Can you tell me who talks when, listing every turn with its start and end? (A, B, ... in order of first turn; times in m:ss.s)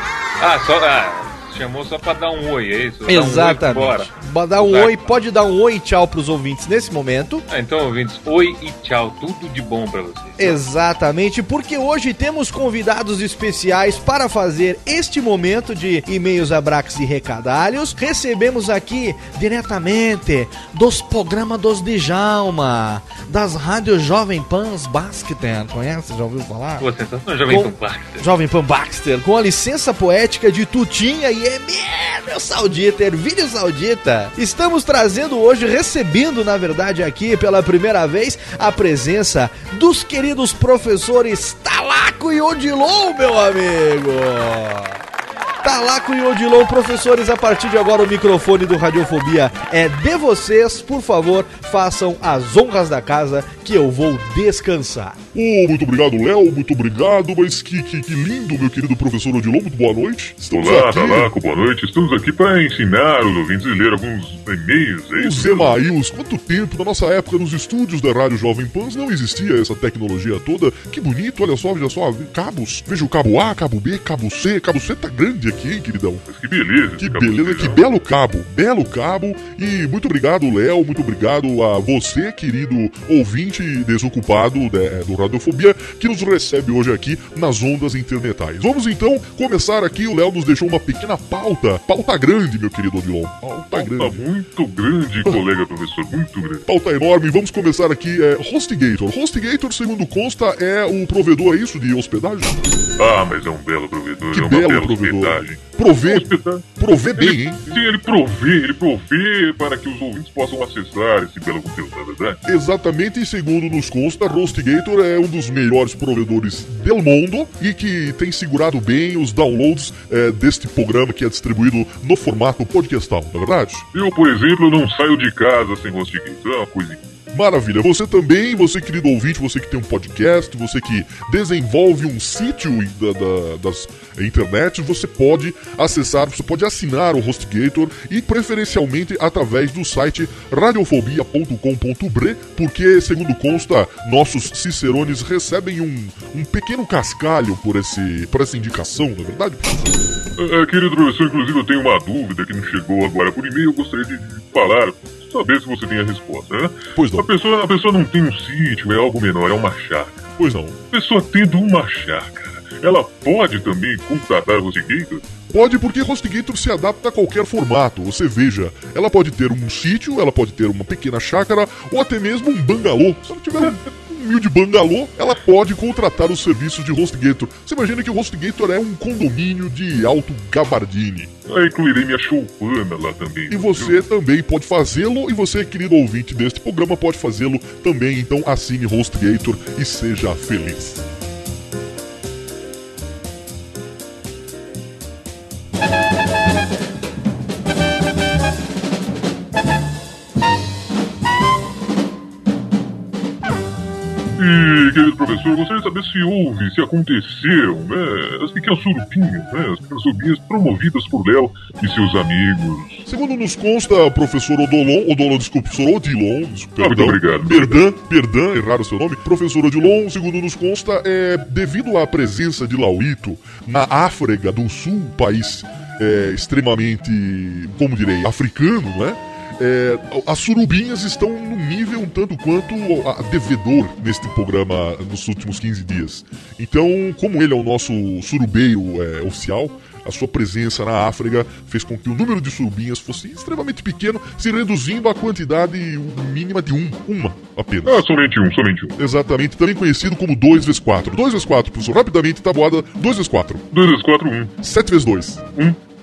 0:00.4-0:05.2 A
0:03.1-0:07.4 B
0:07.5-0:10.6 A
0:10.4-0:26.9 B
0:26.8-0:28.3 A
0:27.5-0:45.0 B
0:45.6-0:55.2 B
0:55.4-1:01.3 C
1:00.6-1:05.8 D
1:05.2-1:16.2 C
1:16.3-1:17.8 D
1:17.0-1:34.2 C
1:33.7-1:36.6 D
1:36.7-1:42.6 C
1:43.0-1:52.4 D
1:44.3-1:47.7 C
1:52.5-2:03.8 C
2:03.9-2:07.0 D
2:07.3-2:30.0 C
2:30.4-2:40.2 D
2:37.0-2:37.3 C
2:40.4-2:40.8 C
2:40.9-2:45.3 D
2:45.5-3:01.3 C
3:01.5-3:04.0 D
3:03.5-3:11.0 C
3:24.4-3:33.0 D
3:33.1-4:08.0 C
3:36.8-3:37.8 D
4:07.8-4:09.0 D
4:09.0-4:13.6 C
4:13.7-4:14.6 D
4:14.6-4:15.4 C